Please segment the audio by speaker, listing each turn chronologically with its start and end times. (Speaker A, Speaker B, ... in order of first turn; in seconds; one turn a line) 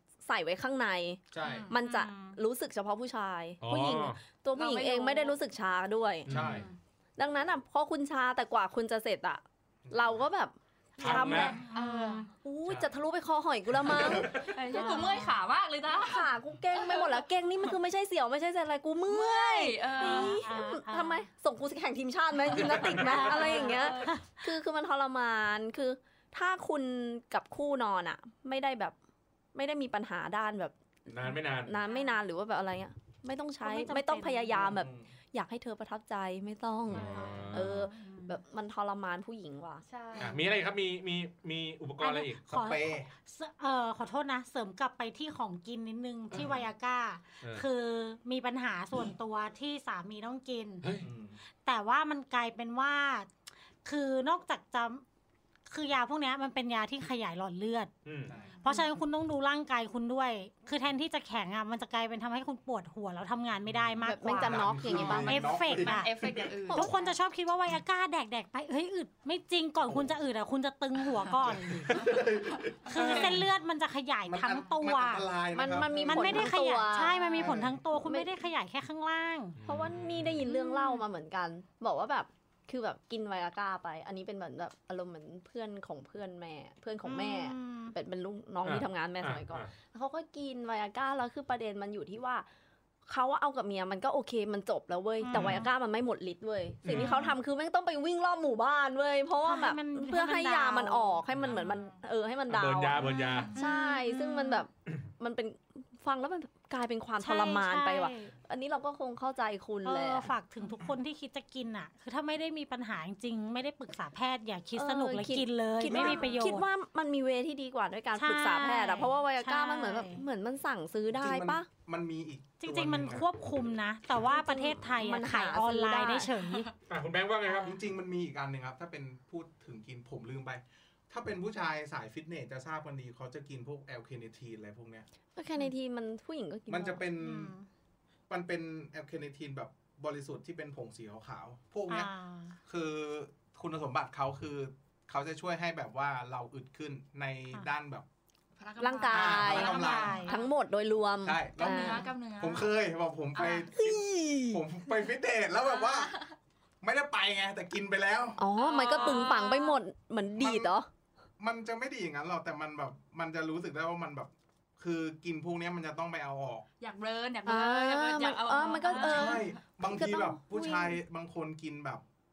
Speaker A: 0.2-6.3
Speaker B: 1.3-1.7
Speaker C: 1.4-1.7
Speaker D: 1.7-2.4
Speaker E: 3.6-4.2
Speaker C: 4.5-5.4
Speaker E: 6.3-6.7
Speaker B: 6.3-6.7
Speaker C: 6.5-6.7
Speaker A: 7.2-11.7
Speaker B: 9.9-10.2
Speaker E: 11.0-11.6
Speaker D: 11.5-12.3
Speaker C: 11.6-12.3
Speaker A: 12.4-14.5
Speaker E: 13.7-14.5
Speaker C: 14.3-17.2
Speaker D: 14.7-15.4
Speaker A: 15.9-28.9
Speaker C: 19.1-20.5
Speaker D: 20.0-21.3
Speaker E: 22.5-23.3
Speaker C: 23.1-24.1
Speaker D: 23.3-24.2
Speaker A: 29.5-30.8
Speaker E: 31.1-31.7
Speaker A: 31.3-39.8
Speaker C: 31.8-32.2
Speaker C: 33.6-34.6
Speaker B: 34.5-35.1
Speaker E: 36.9-37.9
Speaker D: 37.0-37.8
Speaker C: 39.9-40.4
Speaker E: 40.2-42.4
Speaker D: 42.0-50.8
Speaker B: 42.5-43.1
Speaker E: 46.3-46.6
Speaker E: 50.8-51.1
Speaker B: 51.0-51.4
Speaker D: 51.6-53.3
Speaker D: 53.9-55.0
Speaker D: 55.7-57.9
Speaker E: 58.0-58.3
Speaker B: 58.3-58.5
Speaker D: 58.6-72.1
Speaker A: 64.0-65.7
Speaker B: 64.4-66.5
Speaker C: 65.7-66.9
Speaker A: 66.7-67.1
Speaker B: 71.5-73.5
Speaker C: 72.0-73.4
Speaker D: 72.9-79.6
Speaker B: 74.3-76.5
Speaker C: 74.5-74.7
Speaker A: 75.5-78.3
Speaker B: 77.4-77.8
Speaker E: 79.6-80.5
Speaker A: 79.7-92.5
Speaker D: 80.5-81.0
Speaker D: 87.0-88.0
Speaker E: 88.6-89.7
Speaker A: 93.1-110.3
Speaker D: 95.2-95.7
Speaker E: 95.3-95.6
Speaker E: 96.8-97.3
Speaker D: 97.0-97.3
Speaker D: 99.4-101.2
Speaker C: 101.5-102.0
Speaker E: 102.5-103.5
Speaker D: 103.0-104.7
Speaker C: 103.2-103.6
Speaker D: 107.2-108.3
Speaker D: 109.8-116.7
Speaker A: 114.8-121.7
Speaker D: 118.2-120.2
Speaker B: 121.1-123.3
Speaker D: 122.6-126.7
Speaker A: 124.3-126.3
Speaker E: 126.9-127.8
Speaker B: 127.5-135.1
Speaker A: 135.3-137.0
Speaker B: 136.7-137.6
Speaker D: 137.2-137.7
Speaker B: 138.3-142.1
Speaker D: 141.9-142.6
Speaker B: 142.7-148.1
Speaker C: 148.6-150.5
Speaker A: 148.8-152.1
Speaker B: 149.1-150.2
Speaker D: 149.5-150.3
Speaker B: 151.2-156.1
Speaker C: 151.6-152.7
Speaker C: 153.3-153.7
Speaker A: 153.4-154.6
Speaker C: 155.7-156.3
Speaker B: 156.8-158.4
Speaker A: 158.4-160.9
Speaker C: 158.5-159.8
Speaker B: 160.4-160.8
Speaker B: 161.4-166.7
Speaker C: 166.8-169.6
Speaker A: 167.4-170.9
Speaker B: 169.0-172.0